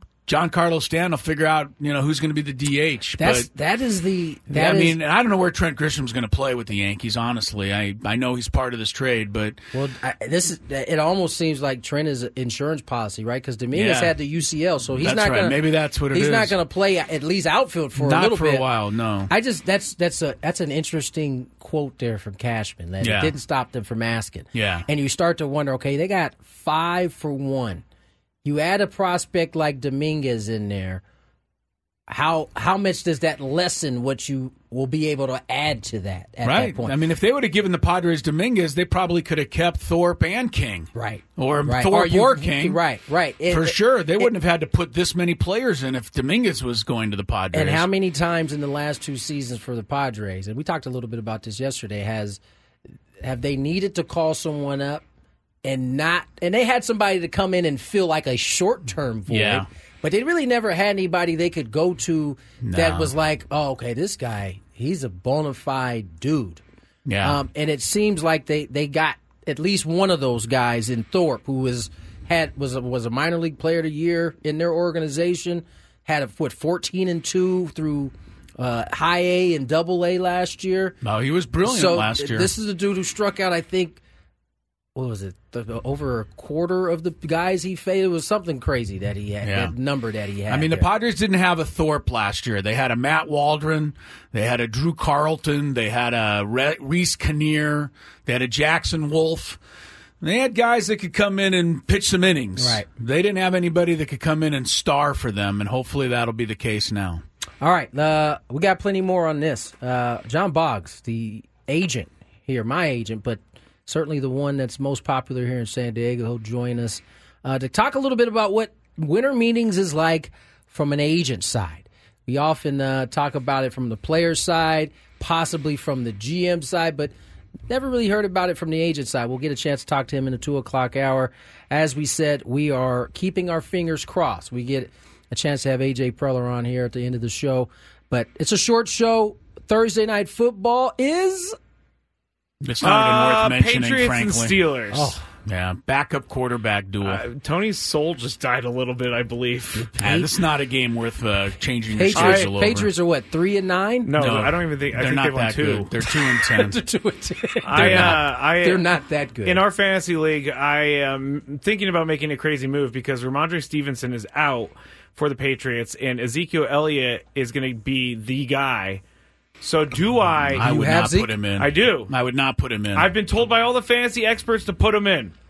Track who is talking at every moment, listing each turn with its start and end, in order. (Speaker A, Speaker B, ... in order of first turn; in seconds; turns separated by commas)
Speaker A: 0.3-3.5, Speaker B: 3.2-5.0, Speaker A: 4.5-9.6, Speaker B: 9.7-15.6, Speaker A: 13.7-14.1, Speaker A: 15.0-16.6, Speaker B: 16.1-18.7, Speaker A: 18.0-19.3, Speaker B: 19.3-27.8, Speaker A: 23.0-23.3, Speaker A: 24.6-24.9, Speaker B: 28.4-31.0, Speaker B: 32.1-37.0, Speaker A: 36.5-42.8, Speaker B: 41.0-44.3, Speaker A: 43.5-47.9, Speaker B: 47.5-52.4, Speaker B: 53.2-55.0, Speaker B: 55.6-66.6, Speaker A: 59.3-59.7, Speaker A: 62.6-63.1, Speaker A: 67.1-67.4, Speaker B: 67.2-81.0, Speaker A: 81.0-82.5, Speaker B: 81.6-84.0, Speaker B: 85.0-90.9, Speaker A: 89.5-89.7, Speaker A: 90.5-99.6, Speaker A: 100.2-107.2, Speaker B: 102.6-102.8, Speaker B: 107.6-127.1, Speaker B: 127.7-141.6, Speaker A: 142.6-144.7, Speaker C: 142.8-145.1, Speaker B: 144.9-145.2, Speaker A: 145.5-147.2, Speaker C: 147.0-150.0, Speaker A: 150.0-152.9, Speaker B: 150.0-150.3, Speaker B: 151.9-154.2, Speaker C: 152.2-152.5, Speaker C: 154.0-155.9, Speaker A: 154.2-156.8, Speaker B: 156.5-159.6, Speaker C: 157.7-158.8, Speaker A: 157.7-158.2, Speaker C: 159.4-169.0, Speaker C: 169.6-170.6, Speaker A: 170.5-173.1, Speaker B: 170.6-171.3, Speaker C: 171.6-172.1, Speaker C: 172.9-175.3